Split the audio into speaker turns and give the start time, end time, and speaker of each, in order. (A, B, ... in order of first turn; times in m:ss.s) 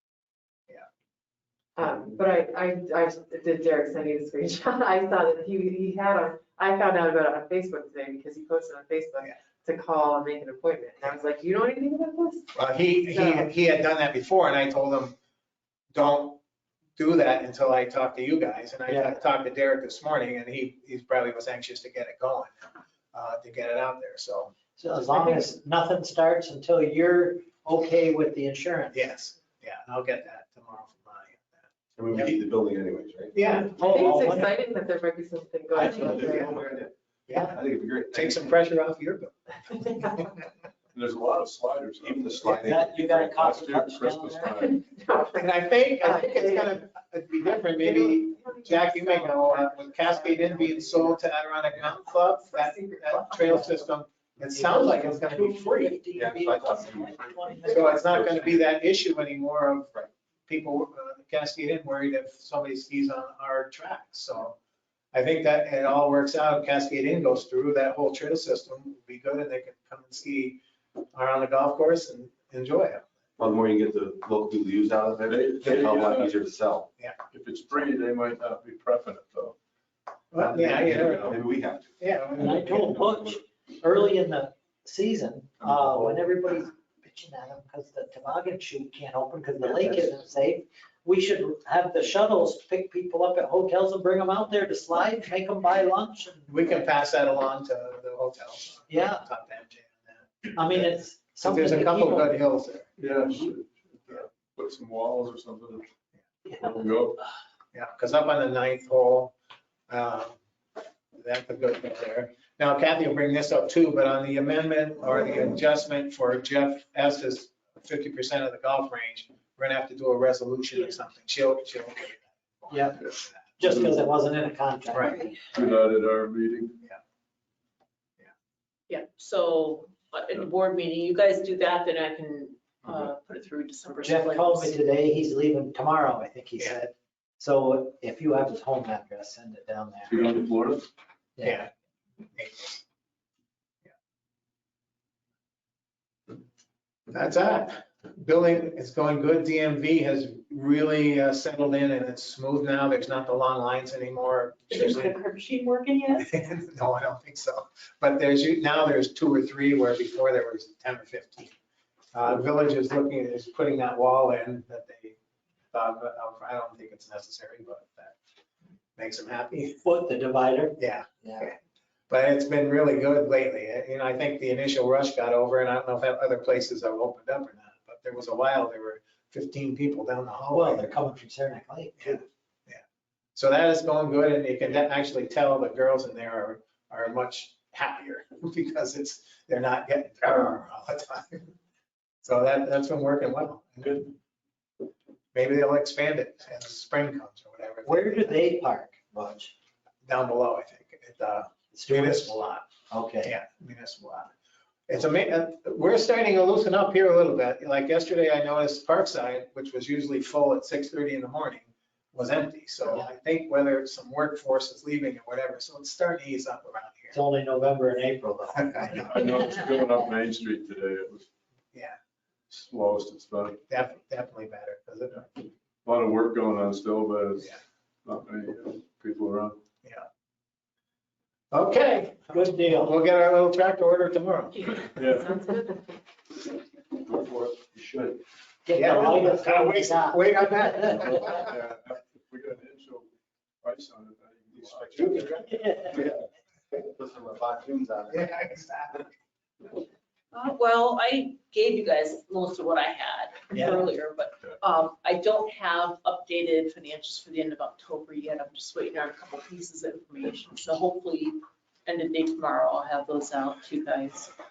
0:01.8-0:12.5 A
0:12.6-0:15.2 B
0:13.1-0:13.5 A
0:15.9-0:16.4 B
0:17.0-0:24.5 B
0:18.9-0:19.2 C
0:24.8-0:29.0 C
0:28.9-0:32.3 B
0:32.0-0:33.4 D
0:33.4-0:34.0 B
0:33.6-0:34.5 C
0:33.8-0:36.8 A
0:35.8-0:38.5 D
0:35.8-0:36.4 C
0:37.3-0:37.6 B
0:38.1-0:40.4 B
0:39.8-0:40.3 A
0:40.9-0:44.8 E
0:42.0-0:43.4 D
0:42.5-0:44.6 C
0:44.8-0:45.5 A
0:45.3-0:56.0 B
0:46.0-0:46.8 A
0:47.8-0:51.2 A
0:52.3-0:53.7 A
0:54.4-0:58.3 C
0:56.1-0:58.7 D
0:57.6-0:59.9 B
1:00.5-1:04.6 B
1:05.1-1:10.6 B
1:11.1-1:13.0 B
1:13.4-1:16.9 D
1:15.3-1:16.4 E
1:17.3-1:19.6 E
1:20.3-1:21.4 B
1:20.4-1:22.0 D
1:21.0-1:21.4 E
1:22.0-1:22.6 B
1:22.4-1:36.5 C
1:22.5-1:23.4 E
1:25.6-1:26.2 D
1:36.5-1:42.9 B
1:38.9-1:39.2 C
1:40.6-1:42.4 C
1:43.0-1:45.9 E
1:46.5-1:47.2 E
1:47.7-1:49.3 B
1:49.9-1:50.4 B
1:51.2-2:03.5 B
2:02.7-2:03.0 C
2:03.6-2:05.4 C
2:04.9-2:05.3 B
2:05.5-2:06.8 E
2:08.9-2:14.8 F
2:14.0-2:20.4 C
2:20.1-2:20.9 E
2:21.4-2:21.6 C
2:21.4-2:21.7 B
2:22.3-2:22.8 B
2:27.1-2:35.2 B
2:34.7-2:36.3 F
2:36.2-2:41.5 B
2:42.1-2:45.2 B
2:45.7-2:48.2 B
2:49.0-2:49.8 B
2:49.8-2:51.5 C
2:50.8-2:51.6 B
2:52.1-3:00.9 B
3:00.5-3:02.2 C
3:02.0-3:02.8 B
3:03.4-3:11.5 B
3:12.2-3:14.1 B
3:15.4-3:18.4 B
3:17.8-3:19.5 C
3:20.0-3:22.7 B
3:21.7-3:23.3 C
3:23.2-3:24.3 B
3:24.9-3:37.2 B
3:37.1-3:39.8 C
3:38.6-3:39.1 B
3:38.9-3:41.3 E
3:42.5-3:43.6 E
3:43.6-3:45.5 B
3:45.8-3:49.6 E
3:51.5-3:55.0 B
3:52.3-3:53.0 C
3:55.0-3:55.4 E
3:55.3-3:55.6 F
3:57.1-3:58.2 D
3:58.7-4:01.2 C
3:58.8-4:01.6 B
4:00.9-4:03.1 E
4:03.6-4:05.4 E
4:04.5-4:08.2 D
4:05.3-4:05.6 B
4:05.5-4:05.9 C
4:08.1-4:09.1 B
4:10.3-4:24.3 F
4:13.6-4:13.8 C